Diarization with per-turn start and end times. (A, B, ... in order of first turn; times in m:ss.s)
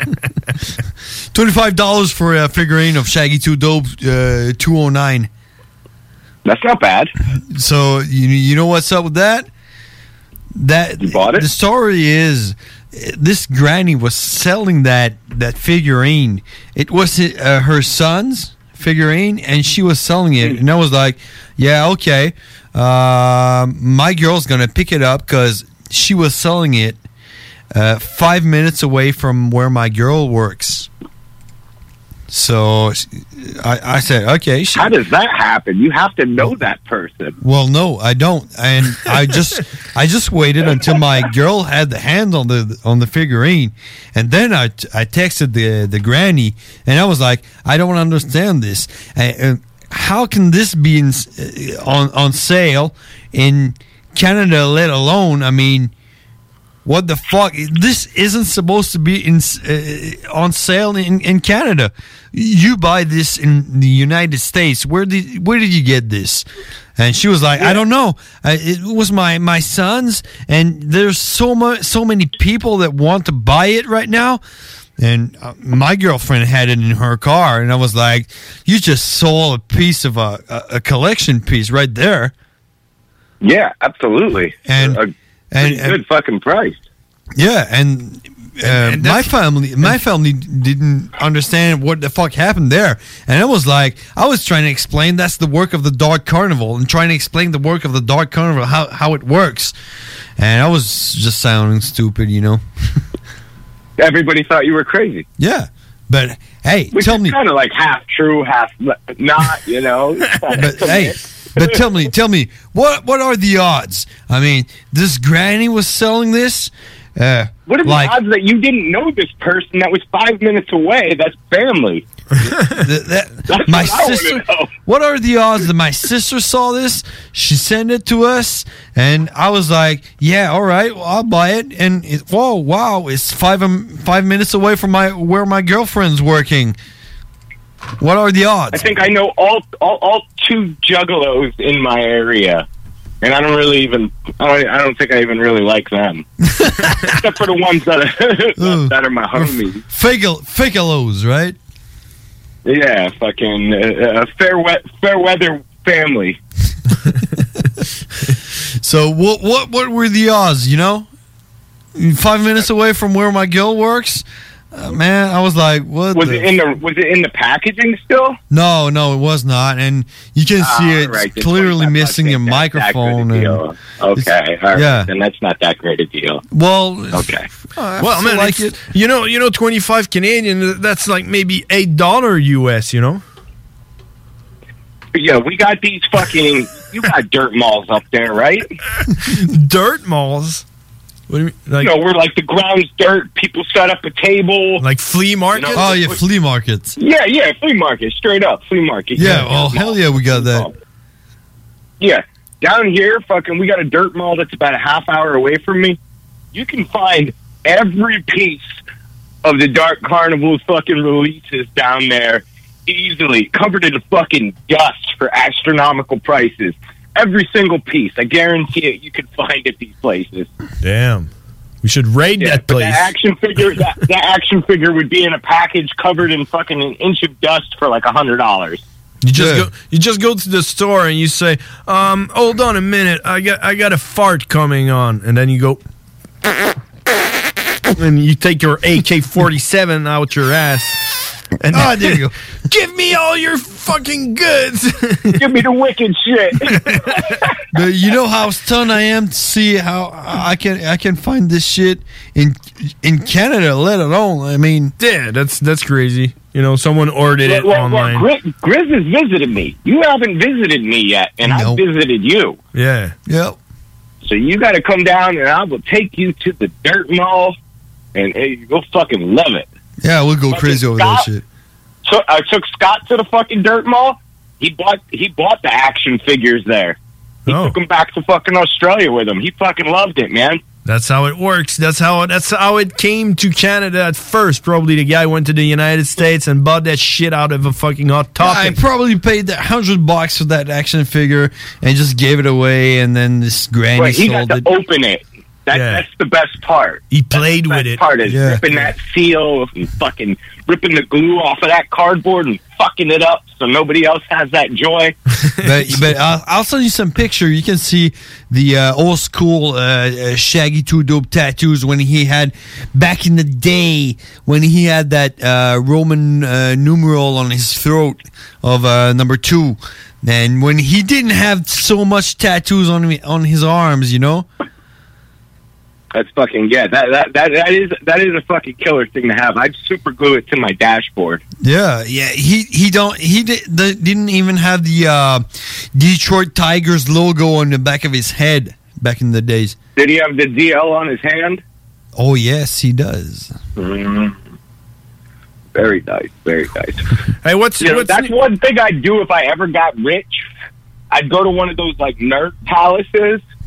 0:01.3-0:05.3 A
0:06.4-0:07.1 B
0:07.3-0:09.5 A
0:10.6-0:27.0 A
0:11.0-0:11.5 B
0:27.7-0:30.9 A
0:32.3-0:34.9 A
0:34.8-0:37.4 B
0:37.4-0:55.9 A
0:56.8-1:06.5 A
1:07.0-1:14.4 A
1:07.6-1:07.8 B
1:15.0-1:22.3 A
1:23.4-1:26.8 B
1:24.7-1:26.0 A
1:27.4-1:39.8 A
1:28.7-1:29.3 C
1:40.4-1:42.6 A
1:44.0-1:45.2 B
1:45.4-1:47.4 A
1:46.9-1:51.8 B
1:50.6-1:58.2 A
1:57.7-2:02.0 B
2:02.6-2:16.8 A
2:03.5-2:04.7 B
2:18.0-2:18.9 A
2:18.7-2:22.6 B
2:23.2-2:26.3 B
2:26.5-2:27.0 A
2:27.0-2:29.8 B
2:28.6-2:31.6 A
2:32.6-2:36.4 B
2:38.8-2:41.1 A
2:42.0-2:46.5 A
2:46.1-2:48.4 B
2:48.5-2:53.6 A
2:50.6-2:56.4 B
2:54.2-2:55.1 A
2:56.5-2:58.8 A
2:57.1-2:57.5 B
2:58.0-3:03.2 C
3:05.1-3:08.7 B
3:09.2-3:10.6 C
3:11.3-3:11.9 C
3:11.8-3:14.8 B
3:14.8-3:16.0 C
3:15.5-3:16.2 B
3:15.8-3:17.0 A
3:17.0-3:20.7 B
3:19.2-3:20.7 A
3:22.0-3:26.0 B
3:26.5-3:28.8 B
3:29.4-3:40.5 B
3:40.8-3:41.3 C
3:41.8-3:43.1 C
3:42.4-3:48.8 B
3:49.2-3:55.8 C
3:49.3-3:49.7 A
3:58.0-4:01.0 C
4:01.6-4:05.4 C
4:01.7-4:02.3 A
4:05.4-4:07.5 B
4:06.7-4:07.2 C
4:07.7-4:14.9 A
4:15.0-4:18.3 C
4:17.4-4:22.6 B
4:21.4-4:21.8 A
4:22.8-4:23.2 C
4:23.3-4:23.6 A
4:24.2-4:27.6 B
4:28.2-4:29.7 B
4:30.0-4:31.4 A
4:30.5-4:31.3 B
4:32.0-4:40.6 B
4:37.5-4:37.8 C
4:40.9-4:48.8 C
4:48.4-4:54.7 A
4:54.0-5:05.2 B
4:55.7-4:56.0 C
4:57.1-4:58.1 C
4:58.3-4:58.6 A
5:05.6-5:06.0 C
5:05.6-5:24.5 A
5:26.1-5:31.4 B
5:31.6-5:39.8 A
5:40.0-5:41.6 B
5:42.2-5:43.5 A
5:43.8-5:44.3 B
5:45.8-5:47.0 B
5:47.4-5:48.3 C
5:47.8-5:50.5 B
5:51.1-5:53.4 B